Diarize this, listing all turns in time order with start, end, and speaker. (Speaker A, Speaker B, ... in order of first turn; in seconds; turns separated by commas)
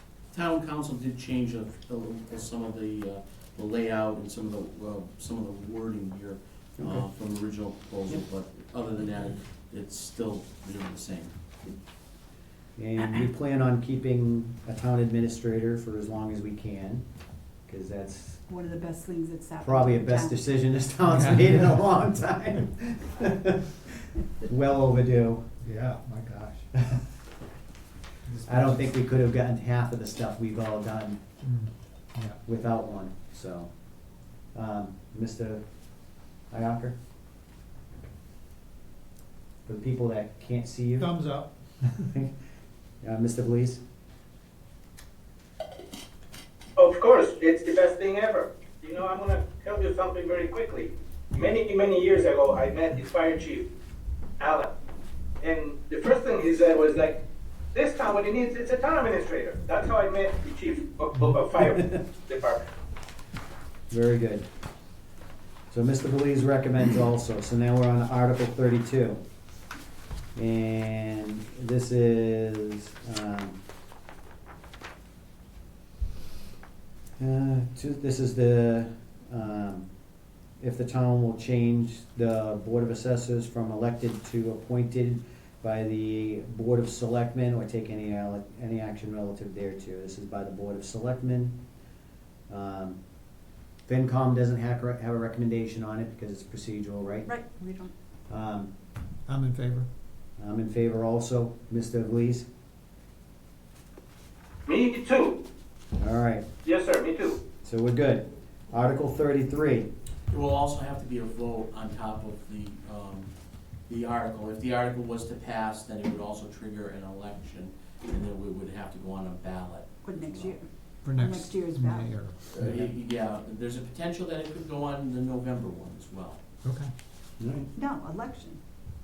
Speaker A: 0.3-11.3, Speaker B: 6.8-7.0, Speaker B: 12.8-17.0, Speaker B: 17.7-18.4, Speaker C: 18.5-20.4, Speaker B: 19.6-25.4, Speaker D: 21.0-21.9, Speaker D: 25.6-26.7, Speaker D: 28.3-28.9, Speaker B: 28.4-31.2, Speaker D: 31.4-32.4, Speaker B: 32.5-33.7, Speaker B: 34.5-35.6, Speaker B: 36.5-37.0, Speaker B: 39.6-41.1, Speaker D: 41.0-41.9, Speaker B: 42.0-42.3, Speaker B: 43.0-43.8, Speaker E: 46.8-53.6, Speaker E: 54.4-54.7, Speaker E: 55.4-57.2, Speaker E: 57.7-62.6, Speaker B: 63.9-64.5, Speaker B: 65.7-69.2, Speaker B: 70.3-73.6, Speaker B: 77.2-79.8, Speaker B: 80.6-91.5, Speaker B: 92.5-93.0, Speaker B: 93.8-97.3, Speaker C: 97.2-97.9, Speaker B: 98.3-98.7, Speaker D: 99.3-99.9, Speaker B: 100.4-102.5, Speaker E: 104.7-105.4, Speaker B: 106.0-106.5, Speaker E: 106.6-107.4, Speaker B: 107.6-109.9, Speaker A: 110.3-113.3, Speaker A: 113.9-120.6, Speaker C: 120.0-122.1, Speaker D: 121.0-122.8, Speaker A: 122.5-126.4, Speaker D: 126.6-126.9, Speaker B: 127.4-127.7, Speaker C: 127.7-128.6